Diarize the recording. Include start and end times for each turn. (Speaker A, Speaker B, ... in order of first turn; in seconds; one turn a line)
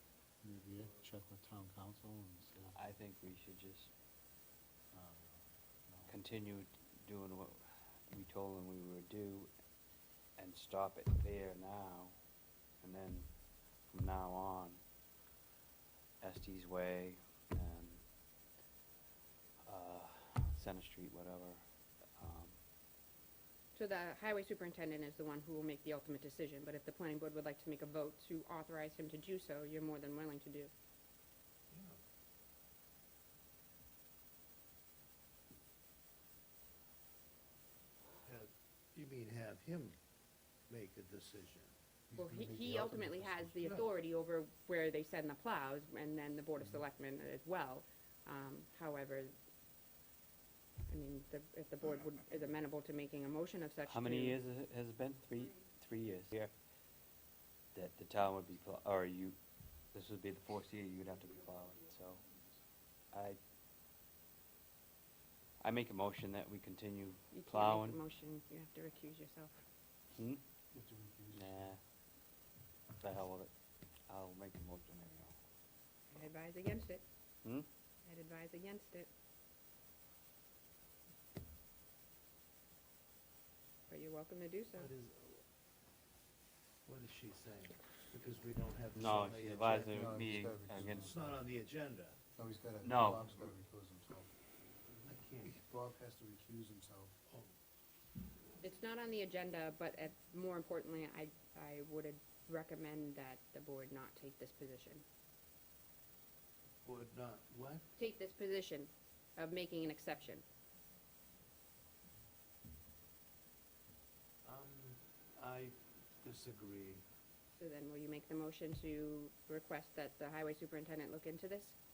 Speaker A: 0.4-2.8
Speaker B: 2.7-3.9
Speaker A: 4.9-6.2
Speaker B: 6.1-9.5
Speaker B: 10.4-12.2
Speaker B: 12.8-13.3
Speaker B: 13.9-14.8
Speaker B: 16.2-18.0
Speaker B: 19.6-21.6
Speaker B: 22.2-22.6
Speaker C: 23.7-30.7
Speaker D: 31.7-32.0
Speaker D: 38.2-40.0
Speaker D: 40.7-41.7
Speaker A: 42.1-43.7
Speaker C: 42.2-49.3
Speaker C: 50.9-54.4
Speaker B: 53.9-56.5
Speaker B: 57.7-59.4
Speaker B: 59.9-62.2
Speaker B: 63.1-63.4
Speaker B: 65.6-68.0
Speaker C: 67.3-69.5
Speaker B: 70.2-70.4
Speaker A: 70.7-71.8
Speaker B: 71.3-71.8
Speaker B: 73.0-73.5
Speaker B: 74.1-75.4
Speaker C: 76.1-77.0
Speaker C: 78.0-79.1
Speaker C: 83.9-84.9
Speaker D: 84.7-85.4
Speaker D: 86.9-92.2
Speaker B: 89.0-91.1
Speaker A: 89.9-91.2
Speaker A: 92.4-94.3
Speaker B: 92.8-93.4
Speaker D: 95.0-95.6
Speaker A: 95.5-97.2
Speaker D: 97.3-97.6
Speaker C: 98.6-105.0
Speaker D: 106.8-108.0
Speaker C: 108.0-110.4
Speaker D: 114.5-117.0
Speaker C: 117.6-121.8